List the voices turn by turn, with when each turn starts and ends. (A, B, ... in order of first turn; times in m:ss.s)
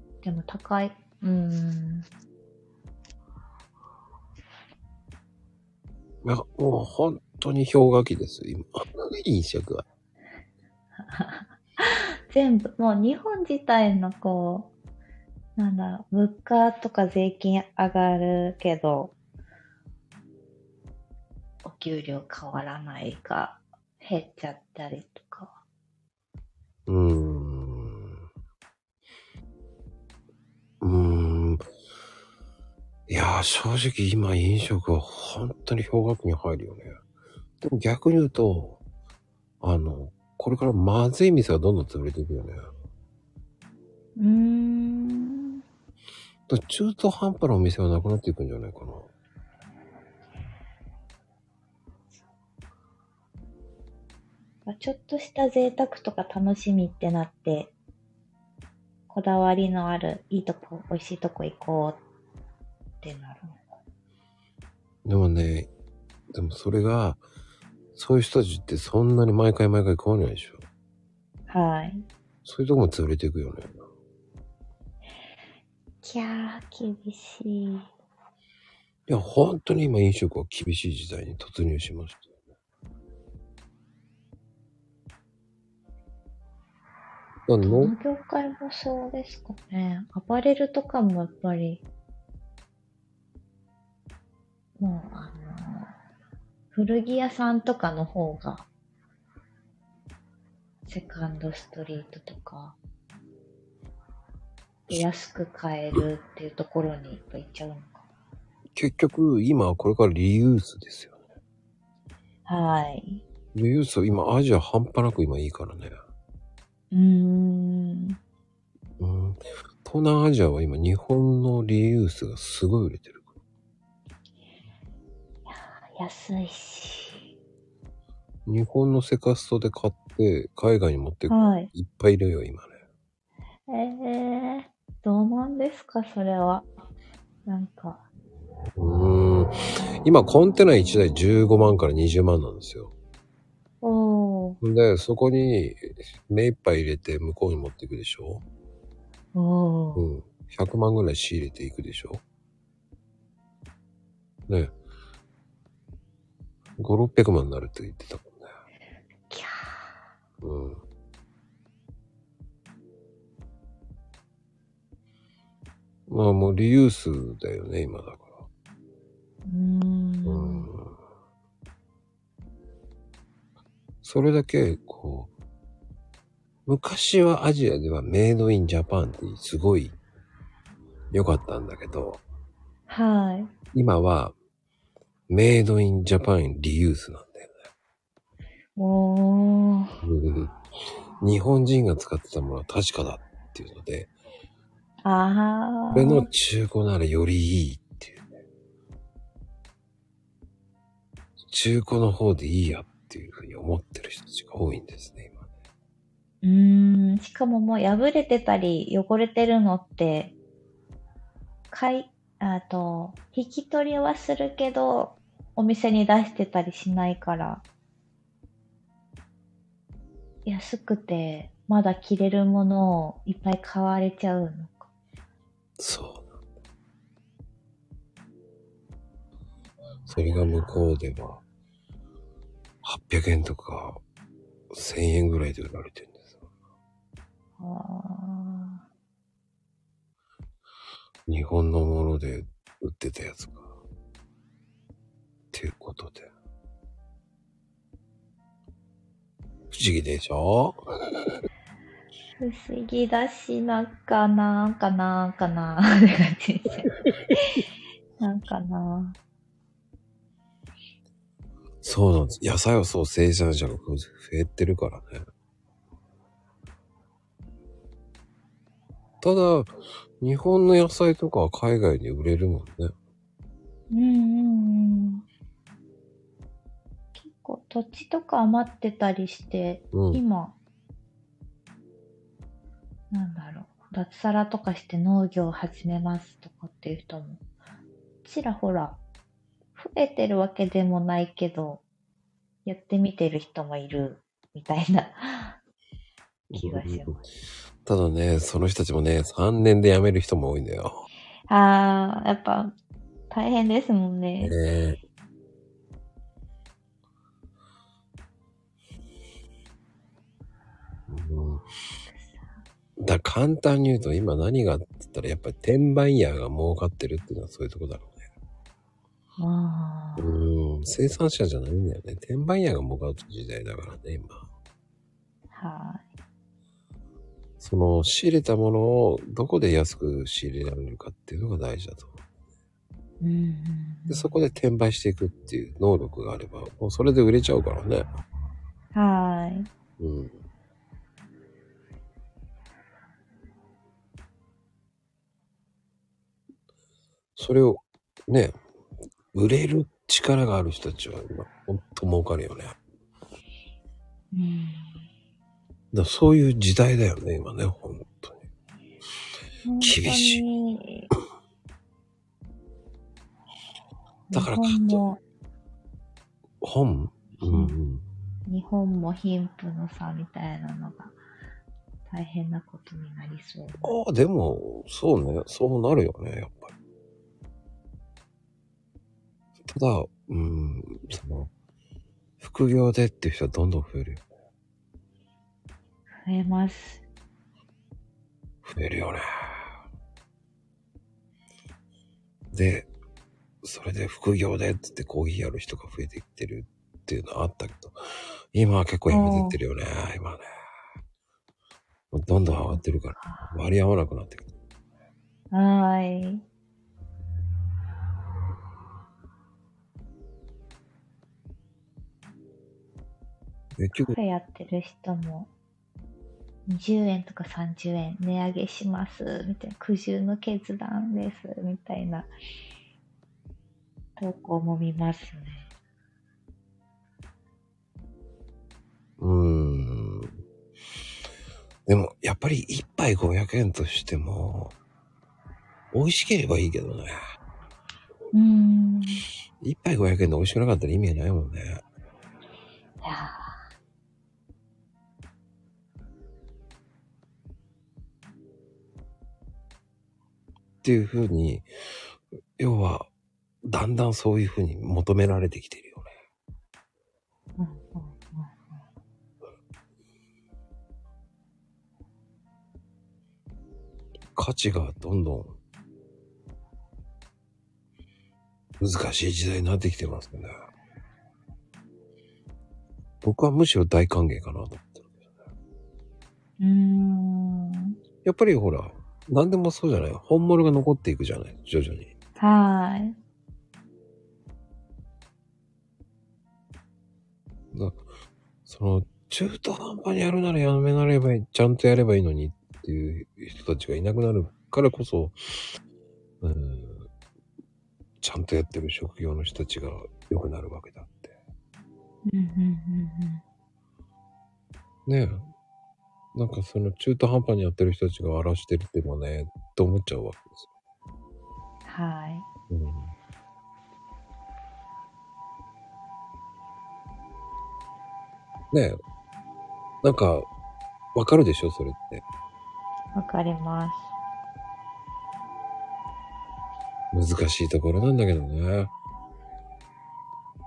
0:00.2-0:02.1 A
0:06.2-0:09.8 B
0:11.0-0:14.7 A
0:15.6-0:19.1 A
0:21.6-0:25.6 A
0:26.9-0:28.2 B
0:30.8-0:31.6 B
0:33.1-0:37.0 B
0:37.6-0:38.8 B
0:39.6-0:42.7 B
0:44.2-0:45.6 A
0:46.5-0:49.1 B
0:54.6-0:57.7 A
0:59.1-1:02.0 A
1:03.0-1:03.6 A
1:05.0-1:05.7 B
1:06.3-1:07.2 B
1:07.9-1:10.6 B
1:11.5-1:12.0 A
1:12.4-1:13.8 B
1:16.0-1:17.9 A
1:19.1-1:22.2 B
1:27.5-1:27.9 B
1:27.6-1:31.8 A
1:34.8-1:35.9 A
1:36.7-1:38.7 A
1:40.8-1:42.8 A
1:44.9-1:48.0 A
1:48.7-1:51.2 B
1:52.5-1:53.2 A
1:53.5-1:56.0 B
1:56.9-1:58.2 A
1:59.0-2:03.2 B
2:05.5-2:07.2 A
2:08.4-2:12.7 B
2:11.3-2:11.7 A
2:13.7-2:16.6 A
2:17.5-2:18.0 A
2:18.8-2:19.5 B
2:20.0-2:22.9 B
2:23.8-2:24.6 A
2:24.6-2:28.4 B
2:29.3-2:30.1 A
2:30.0-2:32.2 B
2:34.5-2:34.7 B
2:36.8-2:38.5 B
2:39.3-2:39.9 A
2:40.4-2:40.8 B
2:46.1-2:48.3 B
2:49.4-2:50.7 A
2:50.2-2:50.9 B
2:54.0-2:55.3 B
2:56.6-2:59.9 B
3:01.1-3:02.2 B
3:02.9-3:03.5 A
3:03.7-3:04.3 B
3:05.3-3:07.5 B
3:08.7-3:10.0 A
3:10.0-3:10.5 B
3:11.2-3:14.1 B
3:15.0-3:16.3 A
3:15.9-3:18.2 B
3:21.5-3:25.4 B
3:26.4-3:30.3 A
3:31.7-3:37.6 A
3:40.4-3:44.9 A
3:45.8-3:46.3 B
3:50.1-3:50.7 A
3:50.1-3:51.4 B
3:52.8-3:54.0 B
3:54.7-3:56.3 B
3:57.6-3:58.8 A
4:01.3-4:03.6 B
4:05.5-4:06.3 B
4:09.7-4:10.8 B
4:12.4-4:17.6 A
4:18.2-4:19.2 A
4:21.8-4:25.2 B
4:29.2-4:29.7 B
4:30.2-4:32.9 B
4:33.9-4:35.2 A
4:37.2-4:40.6 A
4:39.9-4:40.2 B
4:43.1-4:47.4 A
4:48.2-4:49.0 A
4:49.8-4:51.8 A
4:52.6-4:55.6 A
4:56.5-4:57.2 B
4:56.5-4:57.2 A
4:57.8-5:01.0 B
5:01.5-5:02.7 A
5:03.3-5:04.5 A
5:04.4-5:05.0 B
5:11.1-5:11.6 B
5:13.0-5:18.2 B
5:19.4-5:20.3 A
5:20.2-5:24.4 B
5:25.5-5:26.0 A
5:27.6-5:32.1 B
5:33.2-5:34.3 A
5:34.1-5:38.1 B
5:38.9-5:39.7 A
5:40.0-5:40.3 B
5:47.4-5:48.5 B
5:49.3-5:52.8 B
5:54.3-5:55.0 A
5:55.9-5:58.4 B
5:59.6-6:01.1 A
5:59.8-6:00.4 B
6:04.3-6:05.2 A
6:04.3-6:05.0 B
6:06.6-6:08.0 B
6:07.4-6:07.7 A
6:08.5-6:11.1 A
6:12.1-6:13.9 A
6:13.8-6:16.7 B
6:19.7-6:21.5 B
6:22.4-6:24.2 B
6:26.2-6:27.0 A
6:28.6-6:29.6 B
6:32.5-6:32.9 B
6:33.6-6:37.9 B
6:38.5-6:40.4 B
6:39.1-6:39.6 A
6:42.1-6:44.5 B
6:42.7-6:43.5 A
6:45.5-6:46.4 A
6:53.8-6:54.2 B
6:54.1-6:55.5 A
6:56.7-7:02.3 A
7:04.2-7:05.7 A
7:09.2-7:10.3 B
7:11.8-7:14.7 B
7:15.9-7:17.2 B
7:18.3-7:19.2 A
7:19.6-7:21.8 B
7:23.0-7:23.5 A
7:30.8-7:31.6 B
7:32.6-7:33.1 B
7:33.6-7:36.1 B
7:37.6-7:38.8 A
7:44.3-7:45.5 B
7:48.8-7:50.5 B
7:53.2-7:55.1 B
7:56.6-7:58.0 A
7:58.2-8:02.1 B
8:02.4-8:03.2 A
8:07.7-8:08.0 B
8:08.6-8:15.4 B
8:16.4-8:17.1 B
8:18.2-8:21.3 B
8:22.3-8:23.4 A
8:25.0-8:25.4 B
8:26.3-8:30.6 B
8:31.8-8:32.4 A
8:32.7-8:33.1 B
8:38.7-8:39.0 B
8:40.0-8:40.5 B
8:41.1-8:42.2 B
8:43.1-8:44.0 A
8:47.1-8:48.9 B